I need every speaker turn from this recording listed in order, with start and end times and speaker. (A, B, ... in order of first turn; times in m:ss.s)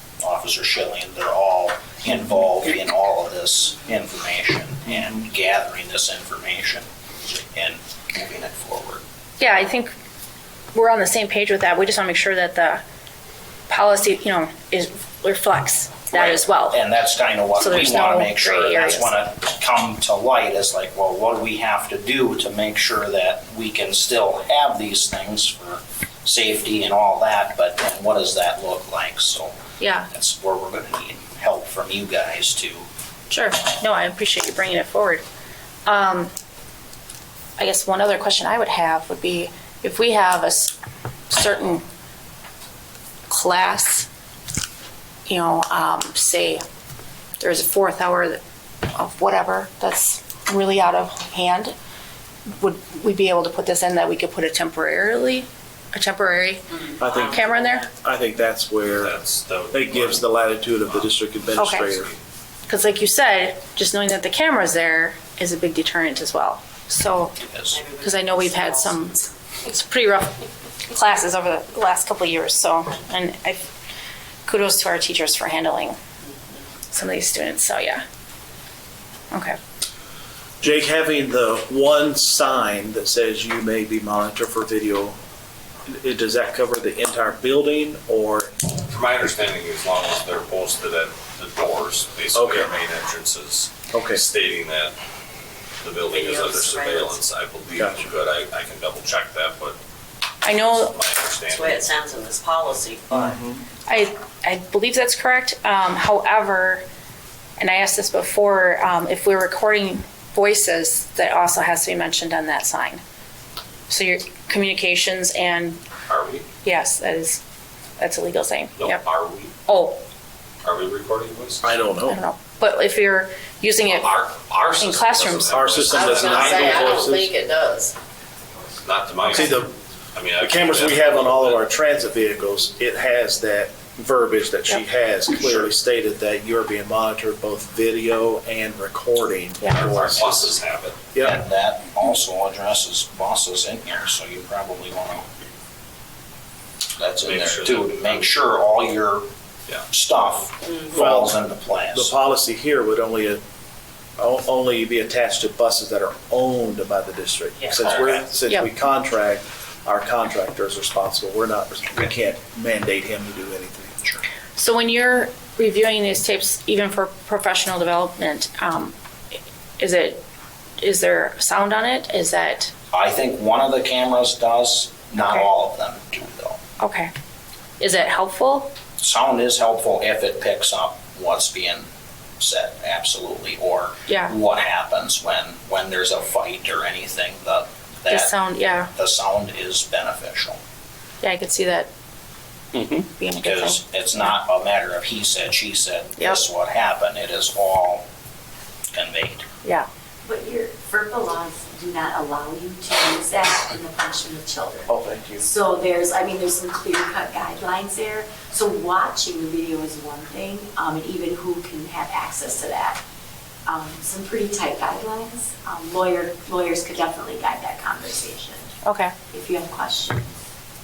0:00.2-0:06.9 A
0:07.5-0:09.0 A
0:09.4-0:09.9 B
0:10.7-0:12.8 B
0:13.7-0:16.8 B
0:16.1-0:29.6 A
0:17.6-0:19.2 B
0:29.8-0:30.1 B
0:30.1-0:32.9 A
0:33.3-0:35.2 B
0:35.9-0:36.3 B
0:37.6-0:40.8 B
0:41.3-0:41.8 B
0:43.3-0:44.1 B
0:45.3-0:46.6 B
0:47.4-0:48.4 B
0:48.9-0:51.8 B
0:52.5-0:57.9 B
0:56.9-0:57.8 C
0:57.0-0:59.2 D
0:58.9-1:01.1 E
0:59.7-1:02.1 D
1:01.6-1:01.9 B
1:01.8-1:02.2 E
1:02.7-1:07.4 B
1:07.4-1:07.8 A
1:07.7-1:09.0 C
1:08.0-1:13.7 B
1:14.5-1:16.0 B
1:16.9-1:18.0 B
1:19.3-1:19.6 B
1:20.6-1:25.2 D
1:25.8-1:28.5 D
1:28.9-1:35.0 E
1:32.3-1:32.7 D
1:33.9-1:34.2 D
1:35.8-1:39.8 E
1:36.1-1:37.2 C
1:37.8-1:38.1 D
1:40.4-1:41.0 B
1:40.4-1:42.0 E
1:41.5-1:43.3 C
1:43.1-1:43.6 D
1:43.9-1:46.8 B
1:47.6-1:53.0 B
1:53.9-1:55.8 B
1:56.1-1:56.5 E
1:56.6-1:57.4 B
1:58.0-1:59.0 B
1:58.8-1:59.6 E
1:59.7-2:00.0 B
2:00.6-2:01.7 E
2:01.6-2:02.2 D
2:02.1-2:04.2 B
2:03.8-2:07.2 E
2:04.7-2:05.6 B
2:05.5-2:07.3 D
2:05.9-2:08.0 C
2:08.8-2:11.6 E
2:09.3-2:09.7 D
2:10.4-2:20.6 D
2:19.6-2:19.9 B
2:19.8-2:21.0 E
2:21.1-2:21.4 D
2:21.2-2:25.3 A
2:27.0-2:29.2 A
2:27.2-2:28.3 E
2:29.9-2:32.1 A
2:30.9-2:31.4 D
2:31.9-2:33.4 D
2:34.2-2:44.0 D
2:44.6-2:49.0 B
2:49.8-2:50.2 B
2:50.8-2:52.7 B
2:52.9-2:56.6 A
2:55.2-2:55.5 B
2:56.8-2:57.1 B
2:57.8-2:58.7 B
2:59.0-3:01.9 A
3:02.4-3:08.4 A
3:04.1-3:04.4 B
3:08.1-3:08.9 B
3:09.0-3:10.6 A
3:11.2-3:11.9 B
3:12.8-3:18.0 A
3:13.0-3:14.3 B
3:18.9-3:19.4 A
3:20.2-3:33.0 F
3:24.9-3:25.5 D
3:33.7-3:38.7 F
3:38.8-3:39.2 B
3:39.2-3:40.3 F